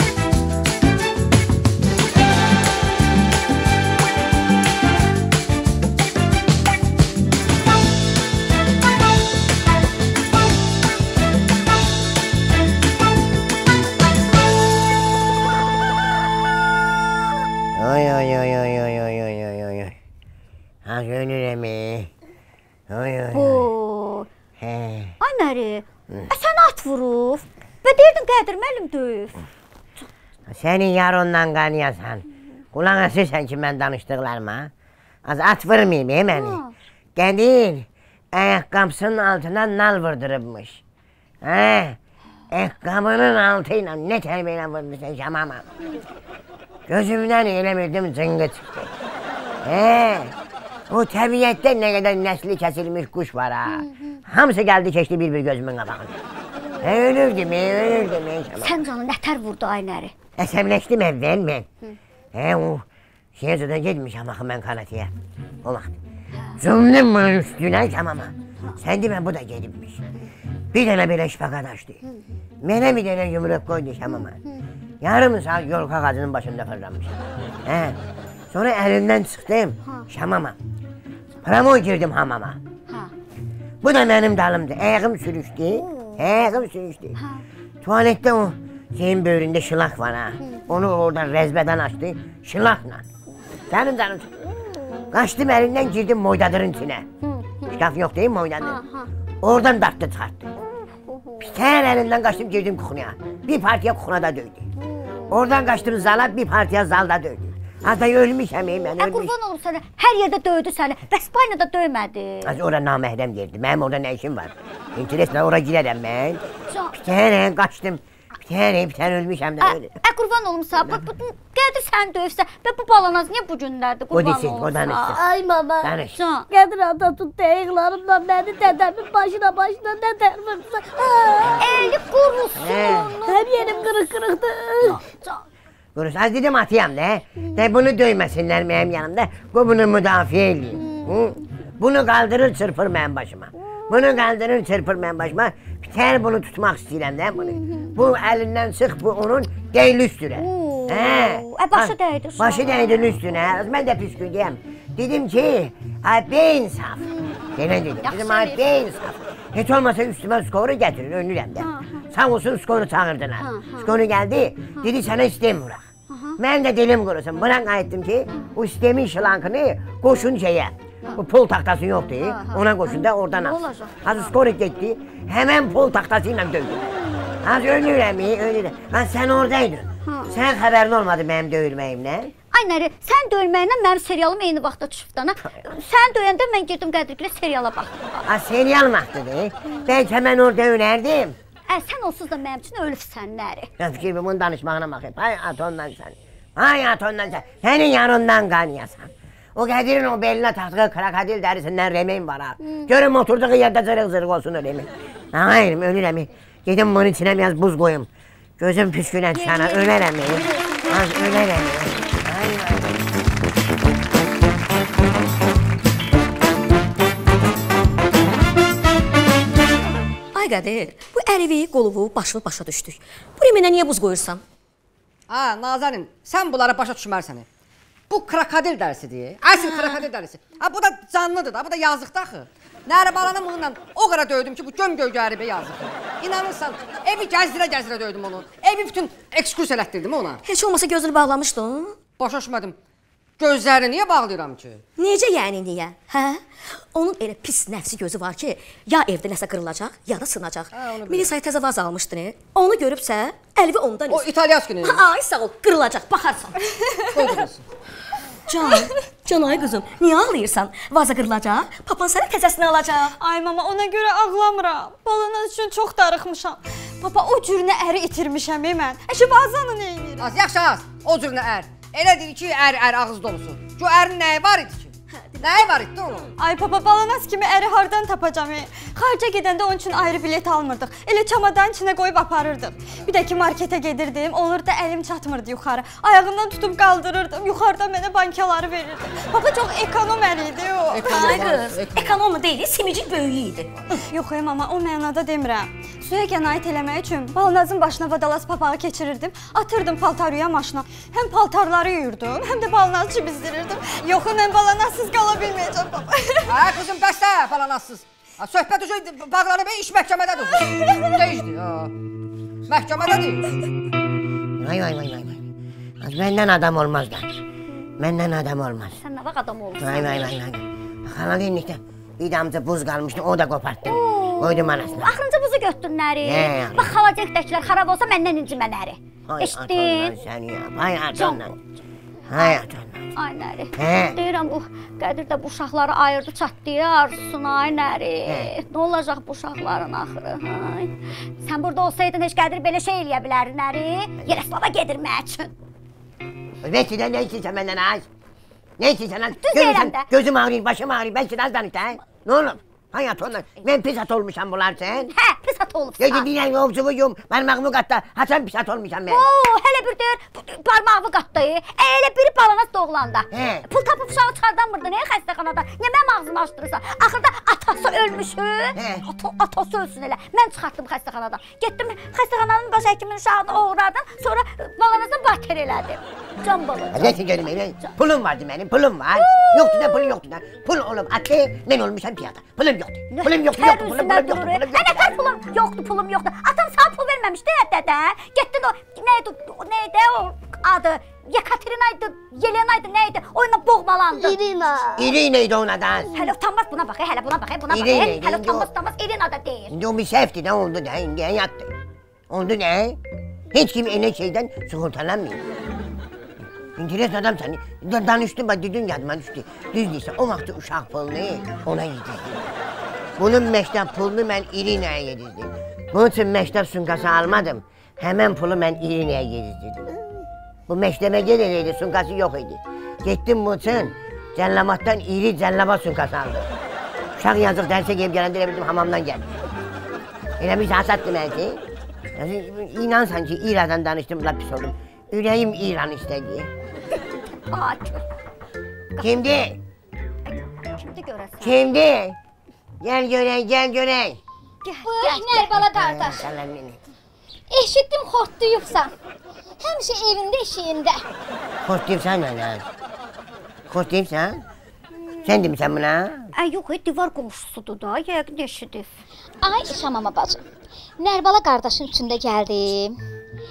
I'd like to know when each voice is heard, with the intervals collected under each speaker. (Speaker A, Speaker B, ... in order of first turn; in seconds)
Speaker A: 17.7-19.9, 20.9-22.1, 22.9-23.7, 24.6-25.1, 30.5-34.7, 35.2-36.6, 37.1-40.8, 41.4-42.0, 42.5-45.6, 46.9-48.9, 49.6-50.3, 50.9-56.1, 56.8-58.8, 60.4-61.7, 62.3-62.8, 63.4-65.1, 65.6-66.0, 66.6-70.0, 70.7-72.0, 72.6-74.4, 75.0-78.0, 78.5-80.5, 81.4-82.6, 83.8-87.2, 87.8-93.0, 93.7-94.3, 95.1-97.1, 97.7-98.8, 99.4-100.5, 101.4-104.7, 105.3-109.3, 112.4-116.4, 116.9-120.0, 124.1-125.2, 125.8-126.2, 132.6-133.1, 135.9-165.8, 166.4-176.8, 177.4-182.3, 188.2-191.3, 193.8-208.1, 208.6-213.0, 314.6-315.4, 316.0-317.4, 318.0-319.0, 319.8-325.1, 326.2-326.9, 329.3-331.6, 332.3-333.1, 333.8-334.1, 338.2-338.5, 346.6-348.1, 348.8-355.1, 356.0-359.2, 363.3-363.6, 368.8-369.0, 376.9-385.1, 394.9-396.1, 397.7-398.7, 399.7-401.7, 402.3-403.0, 403.5-405.4, 406.8-412.5, 413.2-419.9, 420.7-426.5, 427.2-429.3, 430.4-431.6, 432.1-436.5, 439.0-439.6, 441.4-442.2, 442.8-444.2, 445.7-446.8, 451.6-452.6, 453.7-454.4, 455.2-456.3
Speaker B: 23.3-24.3, 25.2-29.4, 36.3-36.7, 58.6-60.1, 97.2-97.7, 98.6-99.1, 101.1-101.4, 104.9-105.4, 109.0-112.5, 116.7-117.0, 119.6-125.2, 126.1-126.5, 131.6-133.7, 134.9-135.4, 150.3-153.1, 158.0-158.6, 161.6-162.0, 163.4-163.9, 166.1-166.4, 172.2-174.1, 180.1-180.3, 182.5-188.2, 191.7-193.7, 202.6-202.9, 209.4-209.9, 319.0-320.4, 323.9-330.1, 332.3-332.6, 333.1-345.5, 349.4-350.1, 355.1-356.2, 359.1-377.2, 379.1-380.1, 383.1-394.4, 396.1-399.7, 437.5-438.0, 440.2-441.6, 444.6-445.7, 456.4-458.9
Speaker C: 125.1-126.0, 126.5-131.9, 133.2-135.0, 394.2-395.1
Speaker D: 220.3-224.4, 229.5-230.1, 240.4-242.0, 245.0-256.6, 258.5-263.1, 291.0-294.0
Speaker E: 225.3-227.4, 228.1-240.4, 242.2-242.8, 243.4-244.8, 250.7-251.3, 254.1-255.0, 257.1-257.6, 270.2-276.3, 290.9-292.1, 306.5-311.9, 312.7-313.4
Speaker F: 263.2-270.3, 276.4-291.4, 294.1-306.5
Speaker G: 444.8-446.3, 447.5-448.9, 449.6-451.0, 459.4-460.4, 461.0-463.0